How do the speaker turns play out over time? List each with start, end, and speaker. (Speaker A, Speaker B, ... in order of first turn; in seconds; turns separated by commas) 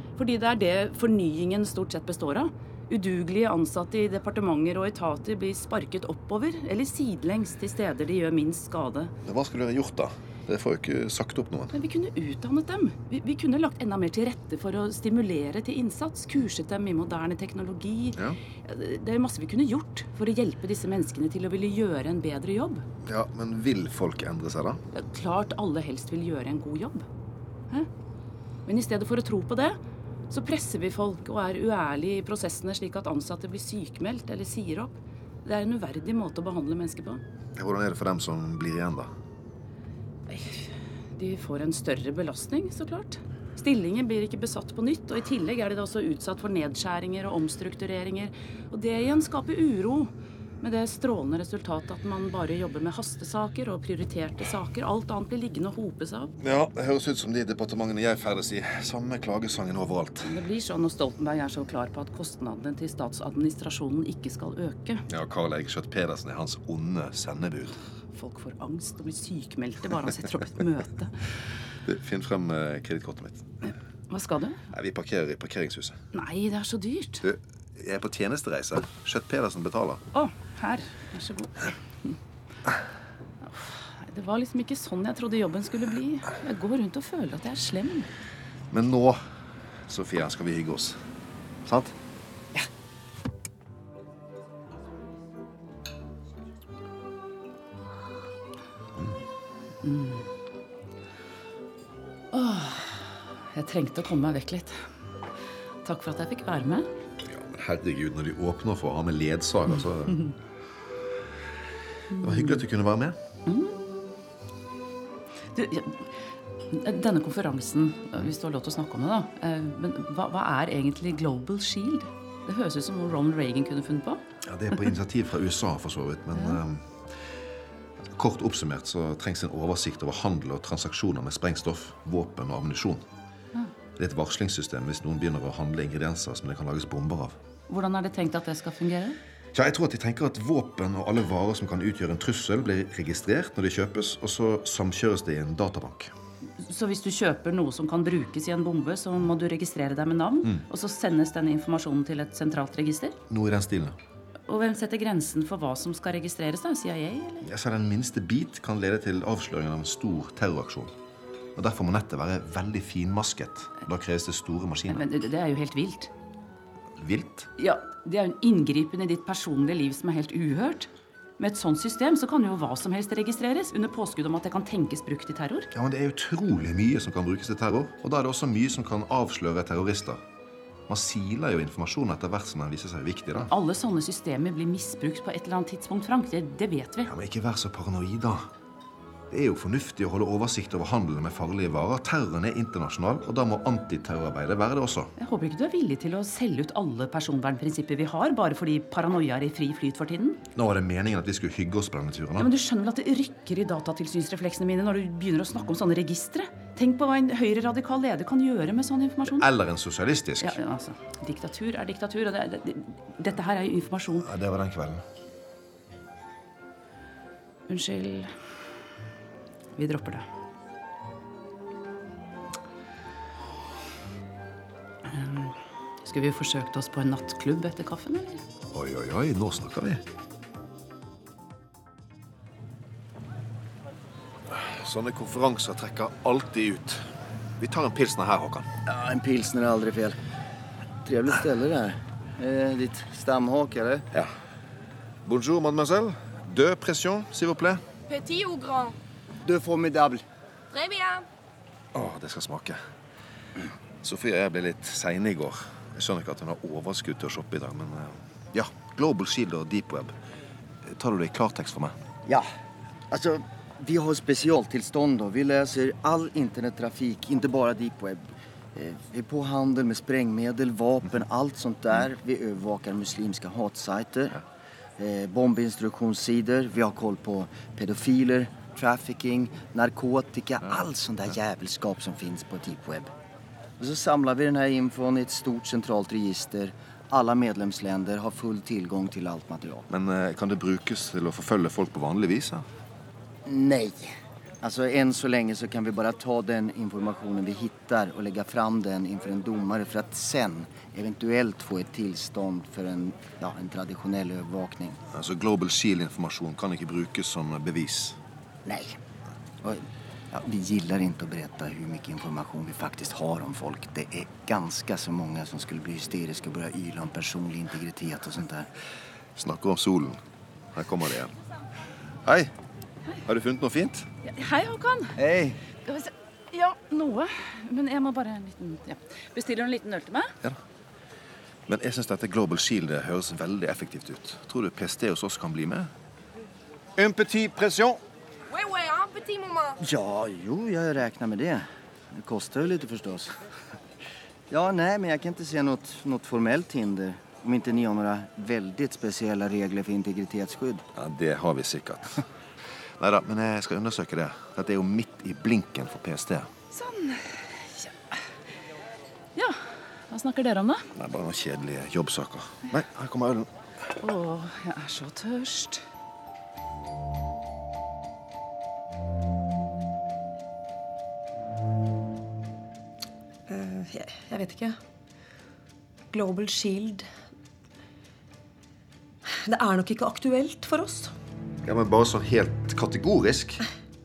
Speaker A: 0.1-9.1, Speaker B: 9.2-11.7, Speaker A: 11.7-22.8, Speaker B: 23.0-24.8, Speaker A: 24.9-27.1, Speaker A: 28.6-29.8, Speaker A: 30.3-34.9, Speaker A: 35.4-37.2, Speaker B: 37.5-39.1, Speaker A: 40.3-56.3, Speaker B: 56.4-60.3, Speaker A: 60.2-65.0, Speaker B: 65.1-67.8, Speaker A: 68.1-71.1, Speaker B: 71.8-73.5, Speaker A: 73.6-74.6, Speaker B: 74.7-76.0, Speaker A: 76.1-77.2, Speaker B: 77.2-80.0, Speaker A: 80.1-82.2, Speaker A: 83.4-88.1, Speaker B: 88.7-89.2, Speaker B: 89.9-91.0, Speaker B: 91.6-91.9, Speaker A: 99.8-100.2, Speaker A: 102.3-104.8, Speaker A: 105.8-106.9, Speaker B: 107.2-110.3, Speaker A: 112.1-112.6, Speaker B: 112.2-113.2, Speaker A: 113.5-113.8, Speaker A: 115.5-116.1, Speaker A: 116.7-124.2, Speaker B: 124.4-127.0, Speaker B: 128.1-133.1, Speaker B: 134.0-137.3, Speaker A: 137.7-139.2, Speaker B: 139.5-146.1, Speaker A: 146.6-153.2, Speaker B: 153.3-154.0, Speaker A: 154.5-157.4, Speaker B: 157.4-160.9, Speaker B: 161.6-165.1, Speaker A: 164.9-166.1, Speaker B: 167.0-167.5, Speaker A: 167.6-175.7, Speaker B: 175.7-180.2, Speaker B: 180.9-183.5, Speaker A: 183.5-187.1, Speaker B: 187.0-188.5, Speaker B: 189.3-195.1, Speaker A: 195.2-200.4, Speaker B: 200.5-202.5, Speaker A: 202.4-209.5, Speaker B: 209.3-210.6, Speaker A: 210.4-214.3, Speaker B: 214.2-215.0, Speaker A: 217.7-218.3, Speaker A: 219.8-220.2, Speaker A: 225.1-228.4, Speaker B: 228.7-230.0, Speaker B: 234.5-237.0, Speaker B: 237.6-238.7, Speaker C: 238.9-240.2, Speaker C: 241.0-244.1, Speaker B: 245.2-247.8, Speaker D: 248.1-248.9, Speaker C: 249.4-250.2, Speaker D: 250.7-251.2, Speaker B: 251.9-252.8, Speaker B: 254.0-260.1, Speaker B: 260.8-261.9, Speaker C: 263.1-268.2, Speaker C: 268.7-274.4, Speaker C: 275.0-283.1, Speaker C: 283.8-289.9, Speaker B: 289.9-292.6, Speaker C: 293.4-305.0, Speaker B: 305.1-308.2, Speaker C: 308.6-309.0, Speaker C: 309.6-318.7, Speaker B: 319.4-320.2, Speaker B: 320.7-321.3, Speaker B: 322.2-322.5, Speaker B: 323.2-324.1, Speaker A: 324.2-325.1, Speaker C: 325.2-325.6, Speaker A: 325.8-330.3, Speaker B: 331.7-335.9, Speaker B: 336.9-338.0, Speaker D: 338.6-339.6, Speaker C: 339.8-343.3, Speaker C: 344.5-350.8, Speaker B: 350.9-352.2, Speaker B: 353.0-356.5, Speaker A: 356.7-358.1, Speaker A: 359.4-360.9, Speaker B: 360.9-363.5, Speaker A: 364.0-365.8, Speaker E: 373.5-374.8, Speaker E: 376.1-377.1, Speaker E: 379.3-381.1, Speaker B: 381.6-383.6